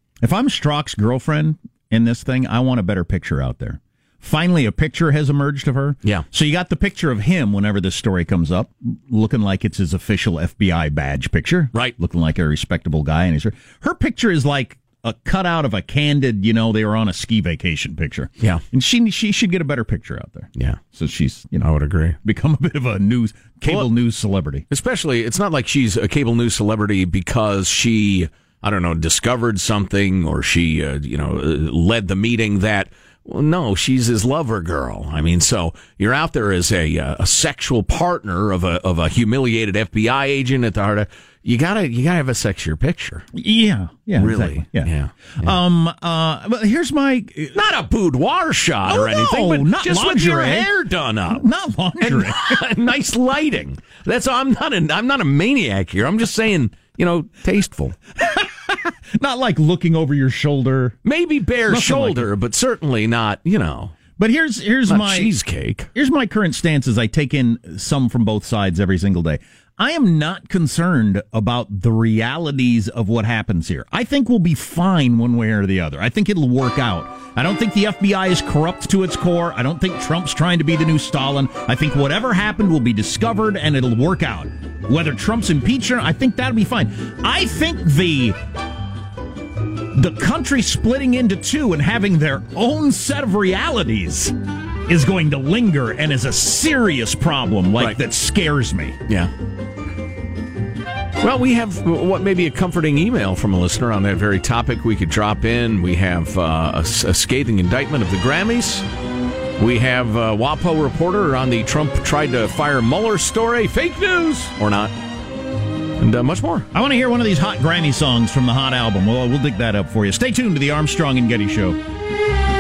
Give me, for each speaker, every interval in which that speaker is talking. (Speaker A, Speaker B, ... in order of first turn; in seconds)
Speaker A: 0.2-24.6, 43.3-47.6, 48.9-50.7, 51.3-52.6, 58.2-61.0, 61.7-62.3, 64.2-65.3, 66.0-88.4, 89.9-94.3, 94.9-99.0, 116.7-121.8
Speaker B: 21.6-22.2, 24.7-43.3, 44.2-45.5, 47.5-51.5, 52.0-58.0, 61.0-64.0, 64.9-65.9, 101.2-108.8, 109.6-114.9, 116.0-116.7